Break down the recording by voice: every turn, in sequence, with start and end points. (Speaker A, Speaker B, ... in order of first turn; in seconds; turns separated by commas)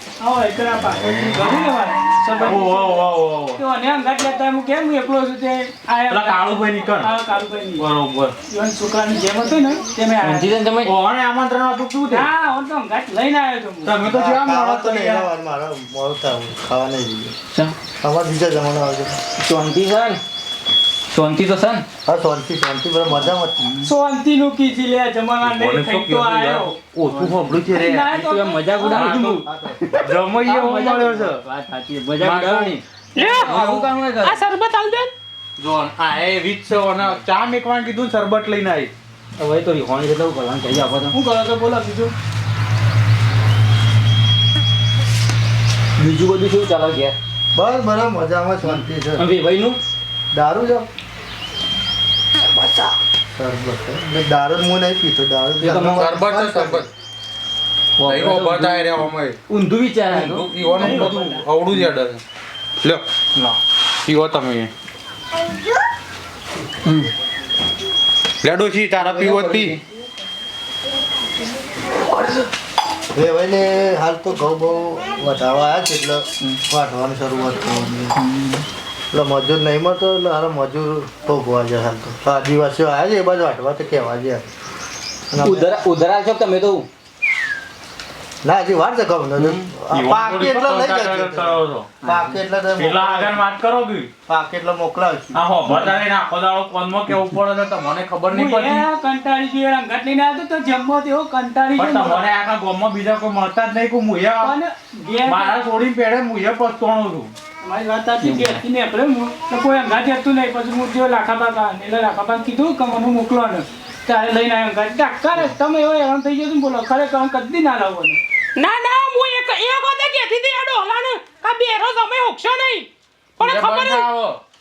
Speaker A: 0.2-3.0, Speaker B: 2.4-3.6, Speaker A: 3.5-7.8, Speaker B: 6.1-7.1, Speaker B: 7.8-8.3, Speaker A: 8.5-10.5, Speaker C: 10.2-10.8, Speaker B: 10.8-12.3, Speaker A: 12.1-13.9, Speaker B: 13.8-15.3, Speaker D: 14.0-17.3, Speaker D: 18.0-19.2, Speaker C: 19.4-20.2, Speaker C: 21.1-21.8, Speaker D: 22.0-23.6, Speaker A: 23.8-26.8, Speaker B: 25.4-28.1, Speaker A: 27.7-29.2, Speaker C: 28.1-29.4, Speaker B: 28.8-31.4, Speaker D: 29.3-29.8, Speaker C: 30.5-34.4, Speaker B: 32.2-32.8, Speaker E: 33.1-35.1, Speaker B: 33.5-33.9, Speaker B: 35.6-38.9, Speaker C: 39.4-41.1, Speaker A: 41.1-42.1, Speaker C: 46.0-47.1, Speaker D: 47.5-49.3, Speaker C: 49.2-49.8, Speaker D: 50.3-50.9, Speaker C: 52.6-52.9, Speaker D: 53.4-56.9, Speaker B: 55.8-56.9, Speaker C: 58.0-58.9, Speaker B: 58.0-59.4, Speaker C: 59.5-61.3, Speaker B: 60.0-62.2, Speaker B: 62.8-64.7, Speaker B: 68.4-69.8, Speaker C: 69.3-69.7, Speaker D: 73.1-78.2, Speaker C: 78.3-78.6, Speaker D: 79.1-84.5, Speaker D: 85.3-85.8, Speaker C: 85.4-86.8, Speaker D: 88.4-93.4, Speaker B: 89.4-92.0, Speaker B: 92.7-94.1, Speaker D: 94.3-95.4, Speaker B: 95.3-98.8, Speaker A: 98.3-102.3, Speaker B: 101.8-104.5, Speaker A: 104.4-105.6, Speaker B: 105.2-107.3, Speaker A: 107.6-118.2, Speaker E: 118.5-124.1, Speaker B: 123.4-124.4